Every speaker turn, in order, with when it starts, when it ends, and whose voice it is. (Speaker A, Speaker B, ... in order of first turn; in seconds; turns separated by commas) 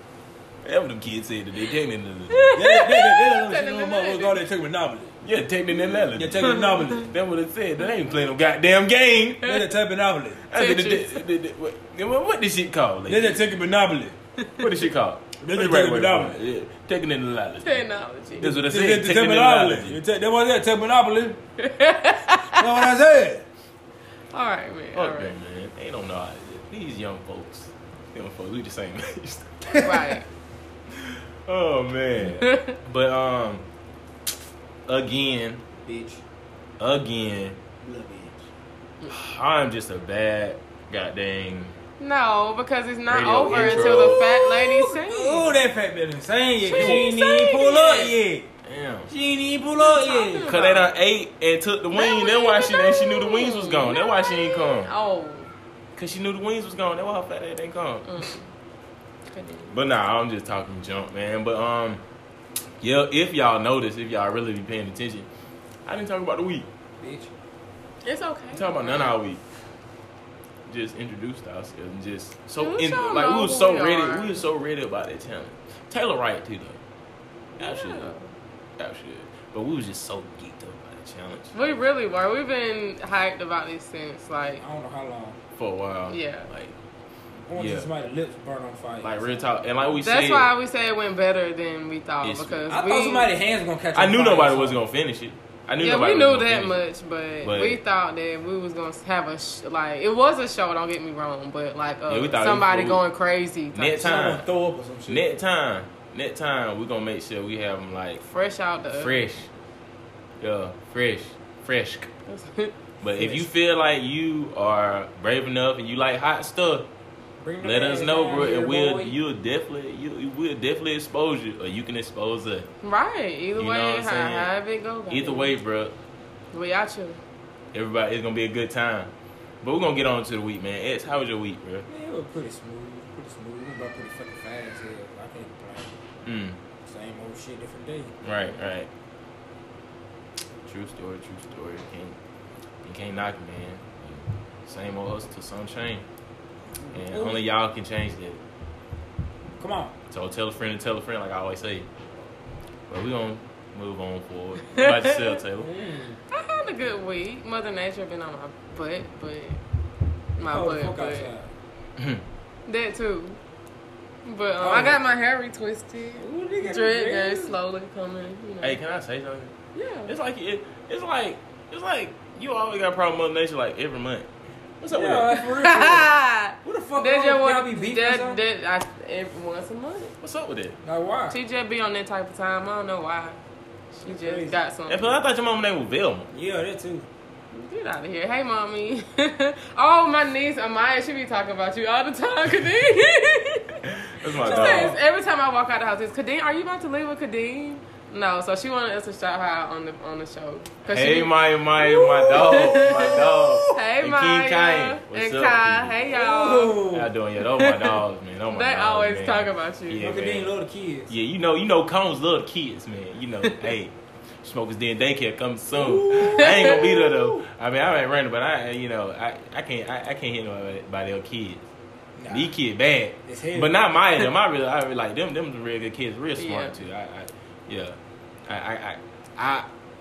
Speaker A: 0.6-2.6, Speaker B: 2.3-4.4, Speaker C: 2.5-5.2, Speaker A: 5.2-9.6, Speaker C: 5.9-7.1, Speaker B: 6.4-6.8, Speaker C: 9.4-10.4, Speaker A: 10.5-13.4, Speaker B: 10.5-11.2, Speaker C: 13.1-14.2, Speaker B: 14.4-14.7, Speaker A: 14.6-17.9, Speaker C: 15.4-16.4, Speaker B: 17.6-18.5, Speaker A: 18.4-20.0, Speaker C: 18.4-21.4, Speaker B: 21.6-22.7, Speaker C: 22.6-23.5, Speaker B: 24.3-25.4, Speaker A: 24.9-29.9, Speaker C: 29.7-30.2, Speaker B: 29.8-30.3, Speaker A: 30.9-33.7, Speaker B: 32.2-32.8, Speaker A: 34.9-35.6, Speaker C: 35.9-36.2, Speaker A: 36.8-37.6, Speaker C: 37.8-38.5, Speaker A: 39.1-41.8, Speaker B: 42.0-45.5, Speaker A: 43.1-44.3, Speaker C: 43.5-48.5, Speaker A: 46.6-47.2, Speaker B: 46.7-48.1, Speaker A: 48.6-49.1, Speaker C: 49.1-50.6, Speaker B: 49.8-50.9, Speaker A: 50.4-54.9, Speaker B: 51.9-55.5, Speaker A: 56.0-58.3, Speaker B: 58.0-58.5, Speaker B: 59.3-59.8, Speaker A: 59.7-62.0, Speaker A: 62.8-65.3, Speaker A: 65.9-66.7, Speaker C: 67.0-67.3, Speaker B: 68.0-69.2, Speaker A: 68.5-69.4, Speaker A: 70.7-76.8, Speaker B: 72.6-74.4, Speaker A: 77.6-78.1, Speaker B: 77.6-78.3, Speaker A: 78.8-81.6, Speaker B: 81.5-84.6, Speaker C: 84.6-85.4, Speaker A: 85.6-86.8, Speaker B: 86.1-86.5, Speaker C: 87.5-89.3, Speaker A: 87.5-87.9, Speaker A: 89.0-90.5, Speaker B: 90.0-93.3, Speaker A: 92.2-92.6, Speaker C: 92.7-94.8, Speaker A: 93.9-96.8, Speaker B: 95.8-104.1, Speaker A: 97.4-97.8, Speaker A: 102.1-103.0, Speaker A: 103.7-104.5, Speaker C: 104.0-105.4, Speaker A: 105.1-108.2, Speaker B: 108.2-109.2, Speaker A: 108.9-109.5, Speaker A: 110.4-112.1, Speaker B: 112.3-112.8, Speaker A: 113.0-116.9, Speaker C: 113.2-113.5, Speaker C: 117.4-119.2, Speaker A: 117.6-122.7, Speaker B: 122.8-125.6, Speaker A: 123.6-124.5, Speaker A: 125.1-126.0, Speaker B: 126.5-127.2, Speaker A: 127.7-131.9, Speaker C: 131.9-136.0, Speaker A: 136.2-136.6, Speaker C: 136.9-138.2, Speaker A: 138.2-138.9, Speaker A: 140.7-142.2, Speaker A: 142.8-146.1, Speaker C: 146.8-147.4, Speaker A: 146.9-148.4, Speaker C: 149.6-149.9, Speaker A: 150.1-151.9, Speaker A: 152.9-155.7, Speaker B: 154.7-155.4, Speaker C: 155.6-156.2, Speaker B: 156.3-159.6, Speaker B: 160.4-161.3, Speaker C: 160.5-161.5, Speaker A: 162.0-162.2, Speaker B: 162.7-163.4, Speaker B: 164.2-168.8, Speaker C: 164.6-165.0, Speaker C: 166.2-167.6, Speaker A: 168.6-169.5, Speaker B: 169.8-170.1, Speaker A: 170.1-175.3, Speaker C: 174.9-178.4, Speaker B: 175.3-180.1, Speaker A: 180.2-180.8, Speaker C: 180.8-181.4, Speaker B: 181.3-183.4, Speaker C: 183.9-184.6, Speaker B: 184.0-185.2, Speaker A: 184.9-186.3, Speaker C: 186.3-187.1, Speaker B: 187.5-193.8, Speaker A: 193.8-195.0, Speaker B: 194.4-201.3, Speaker C: 194.4-195.0, Speaker A: 200.9-206.0, Speaker C: 201.8-203.7, Speaker B: 202.2-203.2, Speaker B: 203.7-206.8, Speaker C: 206.1-207.1, Speaker A: 206.9-210.5, Speaker B: 207.4-208.0, Speaker B: 208.5-210.0, Speaker C: 210.0-211.1, Speaker A: 211.1-221.6, Speaker B: 213.5-213.7, Speaker C: 215.7-217.4, Speaker B: 216.2-216.7, Speaker C: 222.2-222.6, Speaker A: 222.3-229.7, Speaker C: 223.3-223.8, Speaker B: 226.4-226.8